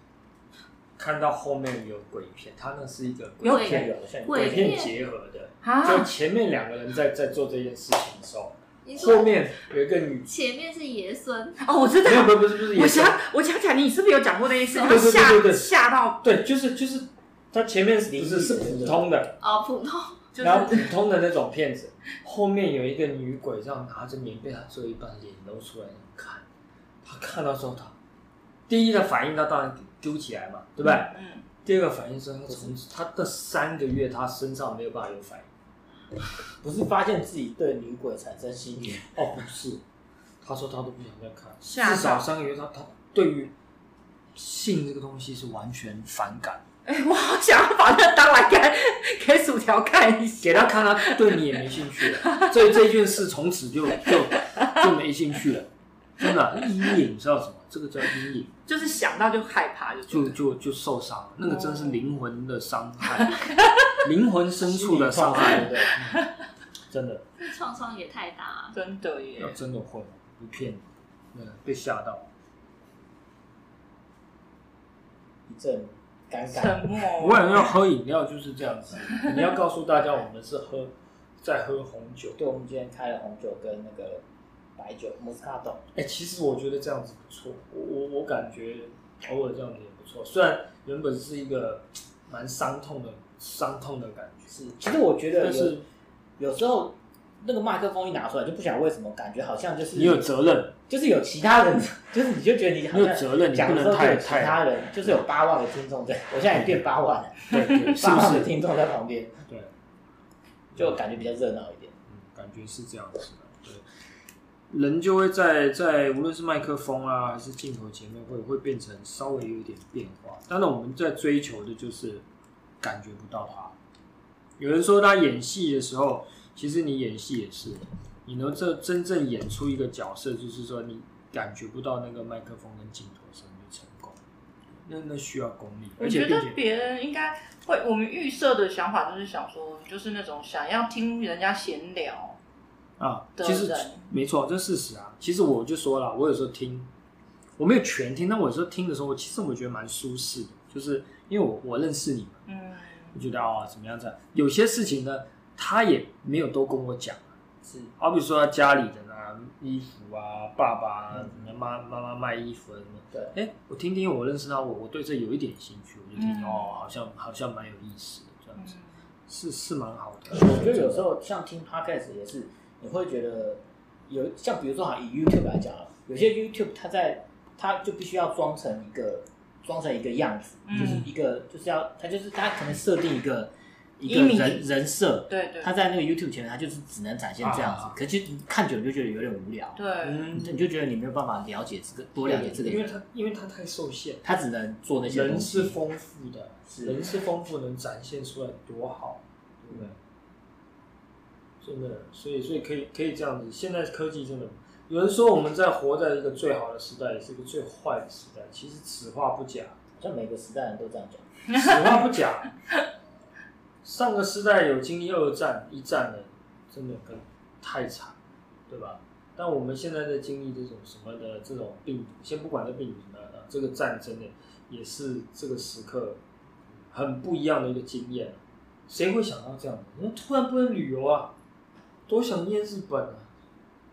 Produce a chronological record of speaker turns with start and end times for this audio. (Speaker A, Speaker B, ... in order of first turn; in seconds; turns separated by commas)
Speaker A: 1.0-10.3, Speaker B: 3.4-3.8, Speaker C: 3.4-5.0, Speaker D: 3.6-4.8, Speaker B: 5.6-6.1, Speaker C: 8.8-9.5, Speaker C: 10.2-11.7, Speaker B: 11.6-16.2, Speaker A: 12.0-13.2, Speaker C: 14.7-15.0, Speaker A: 14.8-19.4, Speaker D: 18.1-19.1, Speaker C: 19.4-20.3, Speaker B: 20.3-20.9, Speaker A: 20.4-26.4, Speaker A: 27.0-27.9, Speaker A: 28.7-35.5, Speaker B: 30.8-31.4, Speaker D: 32.5-32.7, Speaker D: 36.6-39.2, Speaker A: 38.9-39.8, Speaker A: 40.4-43.5, Speaker B: 41.6-42.3, Speaker A: 44.3-46.6, Speaker B: 46.9-51.4, Speaker A: 50.4-58.5, Speaker B: 52.1-52.6, Speaker B: 54.6-54.8, Speaker B: 58.7-60.4, Speaker A: 60.1-63.4, Speaker B: 61.5-62.0, Speaker A: 64.0-66.2, Speaker D: 64.6-66.0, Speaker A: 66.9-67.2, Speaker C: 67.4-68.8, Speaker B: 68.7-69.6, Speaker A: 69.4-72.3, Speaker D: 75.5-76.9, Speaker B: 76.5-77.6, Speaker A: 77.2-82.4, Speaker D: 82.4-84.2, Speaker D: 84.8-85.8, Speaker A: 85.9-94.5, Speaker D: 94.5-95.8, Speaker A: 95.4-95.8, Speaker D: 96.4-100.3, Speaker A: 99.9-100.8, Speaker D: 100.9-109.4, Speaker A: 102.9-104.6, Speaker A: 107.5-108.5, Speaker A: 109.5-109.7, Speaker A: 110.7-111.0, Speaker D: 110.8-111.9, Speaker A: 112.1-113.8, Speaker A: 114.7-122.2, Speaker A: 122.8-123.7, Speaker A: 124.6-134.2, Speaker A: 134.8-136.6, Speaker B: 136.0-142.4, Speaker A: 143.0-146.9, Speaker B: 143.4-144.0, Speaker A: 147.6-152.4, Speaker B: 152.5-153.1, Speaker A: 153.1-157.3, Speaker D: 157.6-157.9, Speaker A: 158.0-168.7, Speaker D: 161.1-161.4, Speaker B: 166.2-166.8, Speaker B: 168.6-168.9, Speaker A: 169.3-171.1, Speaker D: 170.3-189.8, Speaker B: 180.7-181.0, Speaker A: 180.7-181.1, Speaker B: 184.1-184.6, Speaker B: 185.3-185.7, Speaker A: 187.4-188.0, Speaker B: 189.8-190.3, Speaker A: 190.0-190.6, Speaker D: 190.3-192.9, Speaker A: 192.2-194.2, Speaker D: 194.2-195.8, Speaker A: 195.1-199.9, Speaker D: 196.7-197.0, Speaker A: 201.6-209.8, Speaker D: 210.0-211.2, Speaker A: 211.5-212.5, Speaker B: 211.5-211.9, Speaker A: 213.8-218.2, Speaker A: 218.7-226.2, Speaker A: 226.9-231.3, Speaker A: 232.1-233.3